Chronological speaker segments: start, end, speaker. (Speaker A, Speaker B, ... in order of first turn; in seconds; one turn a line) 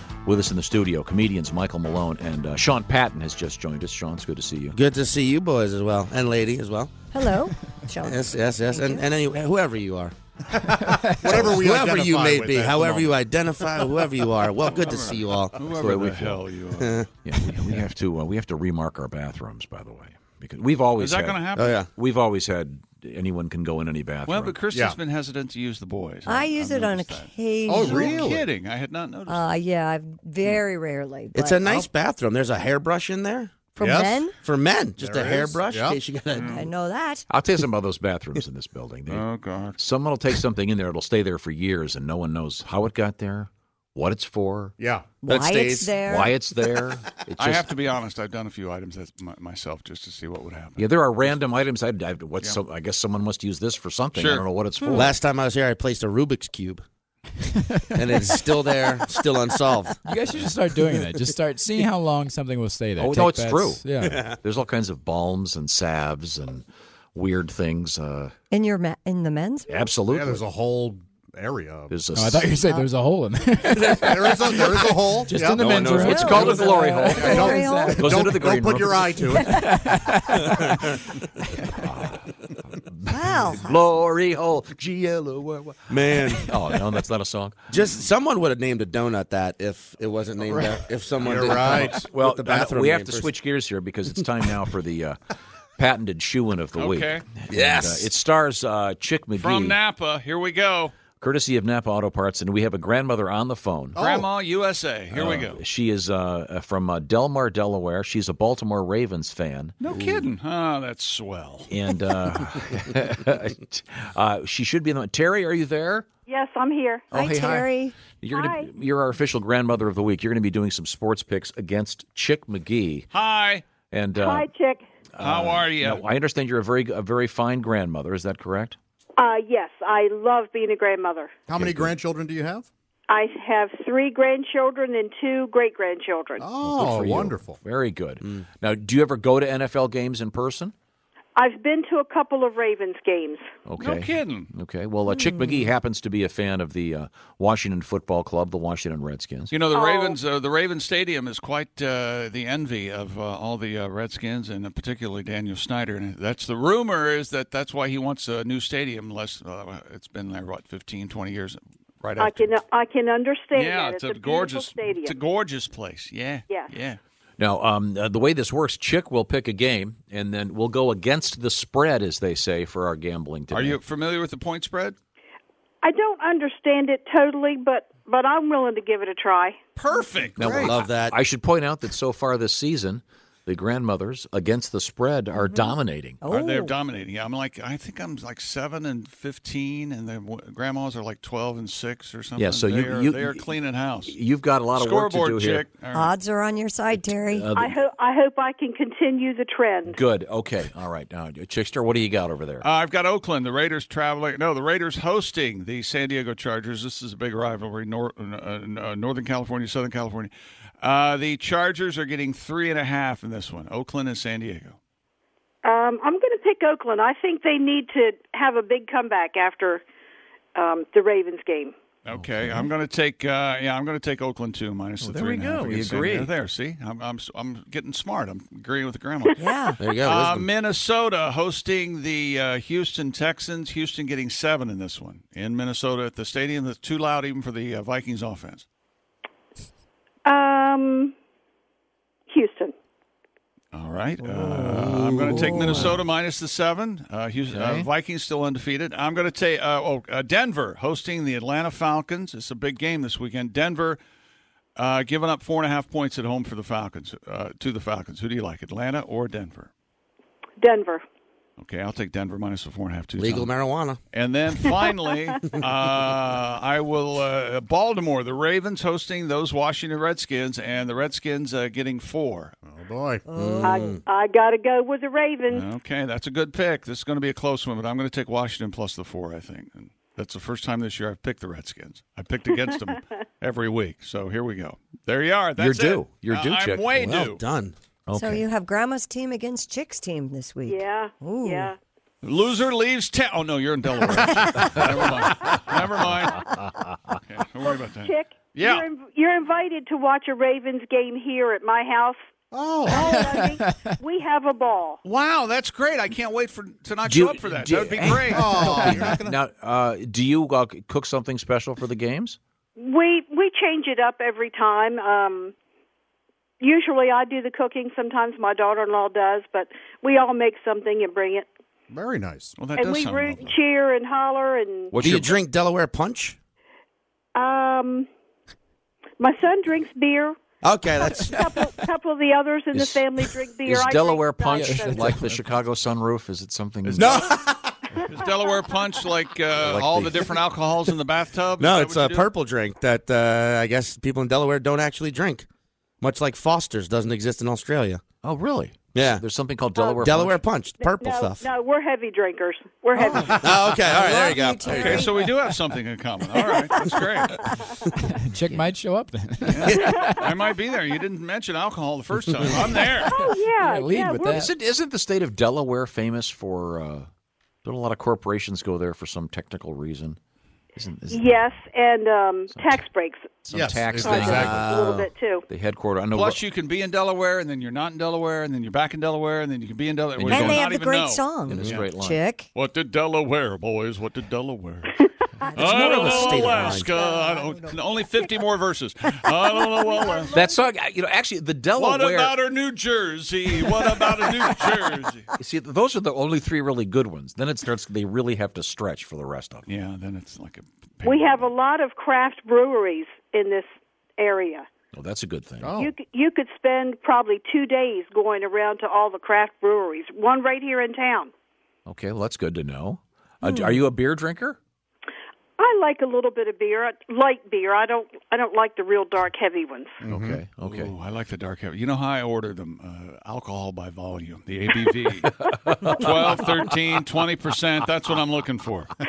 Speaker A: 0.2-4.8
Speaker B: 4.7-6.9
Speaker C: 7.1-9.0
Speaker B: 8.0-10.1
Speaker D: 10.6-13.2
Speaker E: 10.8-11.3
Speaker B: 11.2-15.6
Speaker F: 14.6-17.8
Speaker A: 15.7-16.4
Speaker B: 16.8-17.1
Speaker A: 17.2-21.4
Speaker F: 21.0-21.8
Speaker B: 21.5-21.9
Speaker A: 21.9-24.6
Speaker F: 24.2-29.4
Speaker D: 24.7-25.0
Speaker C: 26.2-28.3
Speaker D: 27.6-28.5
Speaker C: 29.3-31.6
Speaker B: 31.3-33.6
Speaker C: 33.7-34.4
Speaker D: 33.8-34.3
Speaker B: 34.4-36.6
Speaker D: 35.0-36.0
Speaker F: 36.3-36.6
Speaker C: 36.4-37.2
Speaker A: 37.3-39.2
Speaker F: 39.1-39.8
Speaker A: 39.8-44.7
Speaker D: 44.8-45.2
Speaker C: 45.2-46.3
Speaker B: 45.2-45.9
Speaker A: 46.1-47.6
Speaker F: 47.4-50.9
Speaker A: 50.8-55.1
Speaker F: 54.1-54.5
Speaker B: 54.9-56.8
Speaker E: 57.4-58.4
Speaker B: 57.9-60.0
Speaker E: 60.0-64.2
Speaker A: 63.0-68.3
Speaker B: 64.0-64.4
Speaker C: 68.5-69.9
Speaker A: 69.7-70.4
Speaker D: 70.0-72.0
Speaker A: 71.9-72.5
Speaker E: 72.1-78.0
Speaker D: 74.0-80.0
Speaker A: 75.3-79.2
Speaker B: 75.6-76.0
Speaker C: 75.9-78.1
Speaker C: 79.4-79.9
Speaker E: 79.4-80.9
Speaker A: 81.7-87.7
Speaker C: 83.0-83.7
Speaker B: 85.9-86.7
Speaker B: 87.7-93.3
Speaker D: 91.2-92.0
Speaker A: 91.6-95.2
Speaker A: 95.8-99.8
Speaker F: 96.8-97.2
Speaker B: 97.5-98.1
Speaker F: 99.3-100.9
Speaker A: 101.2-104.0
Speaker D: 103.9-104.3
Speaker F: 104.0-105.6
Speaker A: 105.1-109.8
Speaker F: 109.8-111.7
Speaker A: 111.7-116.0
Speaker G: 116.3-117.1
Speaker A: 117.1-123.1
Speaker C: 117.1-118.1
Speaker G: 118.3-118.7
Speaker F: 123.1-123.6
Speaker A: 123.9-124.5
Speaker G: 124.2-124.8
Speaker A: 125.1-128.8
Speaker F: 125.2-126.0
Speaker G: 129.2-131.3
Speaker D: 131.5-132.7
Speaker A: 131.5-131.9
Speaker G: 133.1-136.5
Speaker D: 136.4-137.6
Speaker A: 136.6-140.7
Speaker G: 141.3-143.4
Speaker A: 143.7-149.5
Speaker F: 143.8-144.5
Speaker F: 149.5-162.5
Speaker G: 149.7-150.2
Speaker G: 162.2-165.2
Speaker F: 163.5-167.0
Speaker A: 167.4-173.8
Speaker F: 173.5-174.9
Speaker G: 175.8-179.6
Speaker F: 179.8-180.7
Speaker A: 180.4-186.2
Speaker B: 180.4-181.2
Speaker D: 180.4-180.7
Speaker C: 185.4-186.8
Speaker F: 186.3-194.2
Speaker A: 192.4-193.4
Speaker A: 194.1-195.7
Speaker F: 194.7-196.1
Speaker C: 195.9-197.5
Speaker A: 197.3-197.8
Speaker G: 197.5-200.0
Speaker A: 199.9-202.6
Speaker F: 202.6-214.8
Speaker G: 215.6-219.8
Speaker G: 220.5-221.7
Speaker F: 222.0-238.6
Speaker A: 222.1-222.7
Speaker A: 225.0-226.3
Speaker C: 229.4-229.8
Speaker B: 229.8-230.5
Speaker G: 240.2-241.1
Speaker G: 242.3-242.7
Speaker F: 243.7-254.0
Speaker C: 245.0-245.8
Speaker A: 245.4-245.9
Speaker A: 247.5-247.9
Speaker F: 254.8-259.7
Speaker G: 260.6-261.0
Speaker F: 261.6-263.5
Speaker B: 263.2-264.0
Speaker F: 264.1-272.5
Speaker D: 272.7-273.3
Speaker C: 273.3-274.0
Speaker B: 273.3-274.0
Speaker G: 273.6-275.7
Speaker F: 275.5-287.4
Speaker A: 285.6-286.9
Speaker B: 287.0-287.8
Speaker A: 288.1-288.4
Speaker C: 288.1-291.7
Speaker G: 290.6-291.8
Speaker F: 292.2-296.5
Speaker F: 297.1-298.9
Speaker G: 297.6-302.2
Speaker D: 302.5-303.2
Speaker G: 302.9-305.0
Speaker E: 302.9-304.0
Speaker F: 305.0-308.6
Speaker A: 307.0-312.4
Speaker D: 308.3-309.4
Speaker E: 308.6-309.1
Speaker G: 312.8-315.5
Speaker G: 316.6-321.5
Speaker D: 321.9-322.6
Speaker F: 322.6-323.6
Speaker G: 322.8-324.9
Speaker A: 324.9-325.4
Speaker B: 325.0-326.4
Speaker G: 327.3-328.1
Speaker G: 329.2-330.3
Speaker B: 330.6-331.4
Speaker E: 331.0-331.9
Speaker G: 331.2-335.1
Speaker A: 332.7-333.0
Speaker A: 333.6-337.3
Speaker E: 334.5-335.5
Speaker F: 336.8-342.3
Speaker B: 336.9-337.7
Speaker B: 339.6-340.1
Speaker A: 339.7-340.1
Speaker B: 341.6-345.4
Speaker B: 346.0-348.0
Speaker A: 348.2-350.4
Speaker B: 348.9-349.2
Speaker G: 349.8-350.0
Speaker B: 350.0-351.5
Speaker G: 350.8-353.3
Speaker C: 352.9-355.4
Speaker B: 353.2-355.0
Speaker D: 353.3-354.0
Speaker F: 354.7-357.4
Speaker C: 356.7-357.5
Speaker E: 357.9-360.3
Speaker F: 359.5-363.2
Speaker G: 359.8-360.2
Speaker E: 363.0-364.5
Speaker G: 363.0-364.4
Speaker A: 364.3-367.1
Speaker A: 367.6-370.2
Speaker A: 370.8-371.5
Speaker G: 371.1-373.4
Speaker A: 372.5-372.8
Speaker A: 373.4-374.7
Speaker D: 373.5-374.7
Speaker G: 374.0-375.4
Speaker B: 374.1-375.1
Speaker A: 375.5-376.4
Speaker F: 376.1-381.9
Speaker A: 380.2-380.6
Speaker C: 380.2-382.5
Speaker A: 381.5-382.2
Speaker F: 382.5-390.3
Speaker C: 385.4-388.2
Speaker B: 385.7-386.9
Speaker C: 389.8-390.6
Speaker A: 390.3-392.4
Speaker F: 391.7-395.3
Speaker A: 395.4-399.6
Speaker F: 399.6-401.5
Speaker G: 401.0-403.6
Speaker G: 404.2-404.7
Speaker A: 404.9-405.8
Speaker D: 405.6-405.9
Speaker G: 405.7-411.3
Speaker A: 411.9-414.6
Speaker G: 415.6-420.0
Speaker D: 420.0-420.4
Speaker A: 420.1-420.9
Speaker F: 420.6-429.0
Speaker A: 425.4-426.7